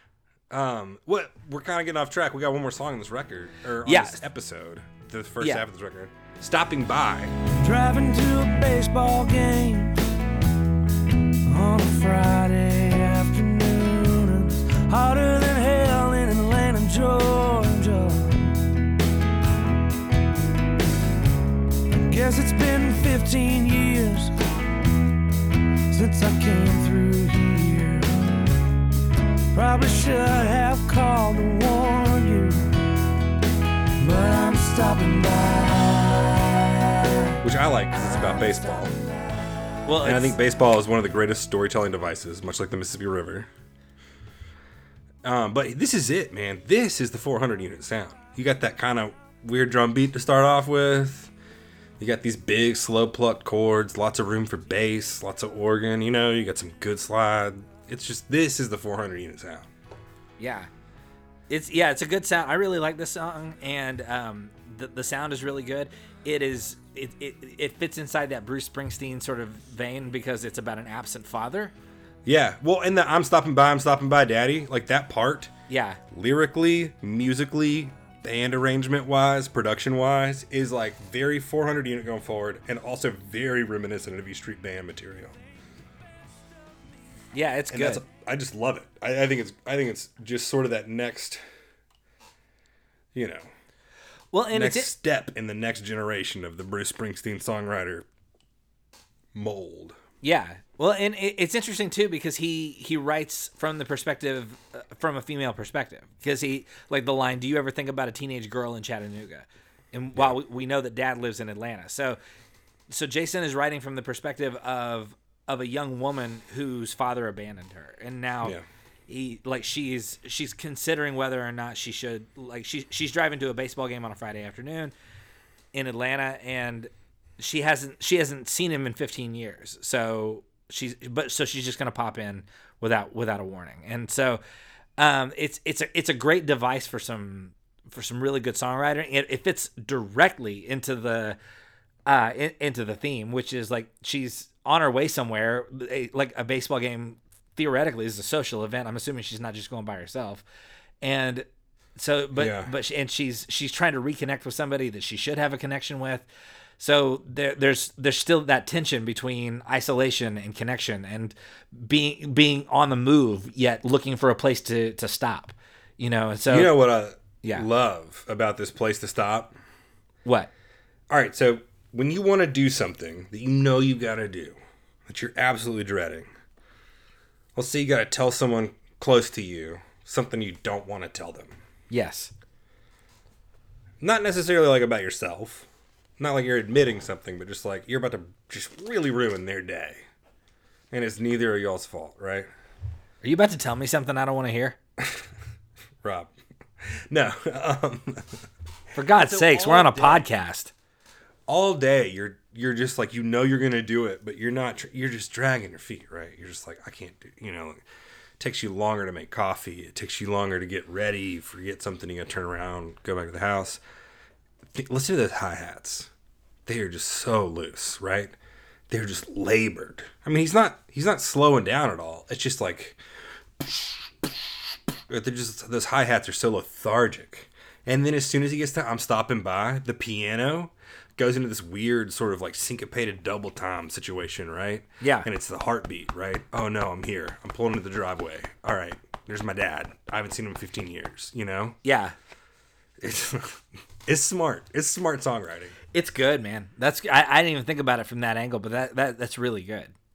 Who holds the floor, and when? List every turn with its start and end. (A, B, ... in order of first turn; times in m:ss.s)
0:00.5-0:07.4 A
0:03.9-0:04.2 B
0:07.6-0:10.0 C
0:11.5-0:18.5 C
0:22.1-0:24.4 C
0:25.9-0:28.4 C
0:29.5-0:32.8 C
0:34.0-0:37.2 C
0:37.4-0:38.9 A
0:39.9-0:40.4 B
0:40.0-0:43.5 A
0:45.2-0:51.3 A
0:52.0-0:59.7 A
1:00.4-1:00.7 B
1:01.5-1:11.7 B
1:12.2-1:15.5 A
1:15.7-1:16.0 B
1:16.1-1:25.4 A
1:27.3-1:28.0 B
1:27.7-1:31.4 A
1:33.1-1:33.5 A
1:34.3-1:34.9 B
1:34.5-1:38.1 A
1:39.3-1:40.0 A
1:40.2-1:52.2 B
1:52.9-1:58.6 B
1:59.1-2:04.9 B
2:05.7-2:14.4 B
2:15.0-2:21.4 B
2:22.1-2:30.4 B
2:31.0-2:36.3 B
2:32.4-2:32.7 A
2:36.8-2:46.8 B
2:46.5-2:49.6 A
2:50.2-2:50.5 B
2:51.1-2:56.3 A
2:57.6-3:01.6 A
3:01.9-3:02.3 B
3:04.0-3:10.1 A
3:10.9-3:12.5 A
3:13.2-3:14.8 B
3:15.0-3:15.3 A
3:16.0-3:18.4 A
3:19.0-3:20.7 B
3:19.0-3:20.3 A
3:21.5-3:27.8 A
3:28.4-3:33.8 A
3:34.7-3:36.1 A
3:36.7-3:38.4 A
3:38.9-3:43.0 A
3:43.6-4:01.8 A
3:55.0-3:55.3 B
4:01.8-4:02.2 B
4:03.0-4:05.8 A
4:05.9-4:09.9 B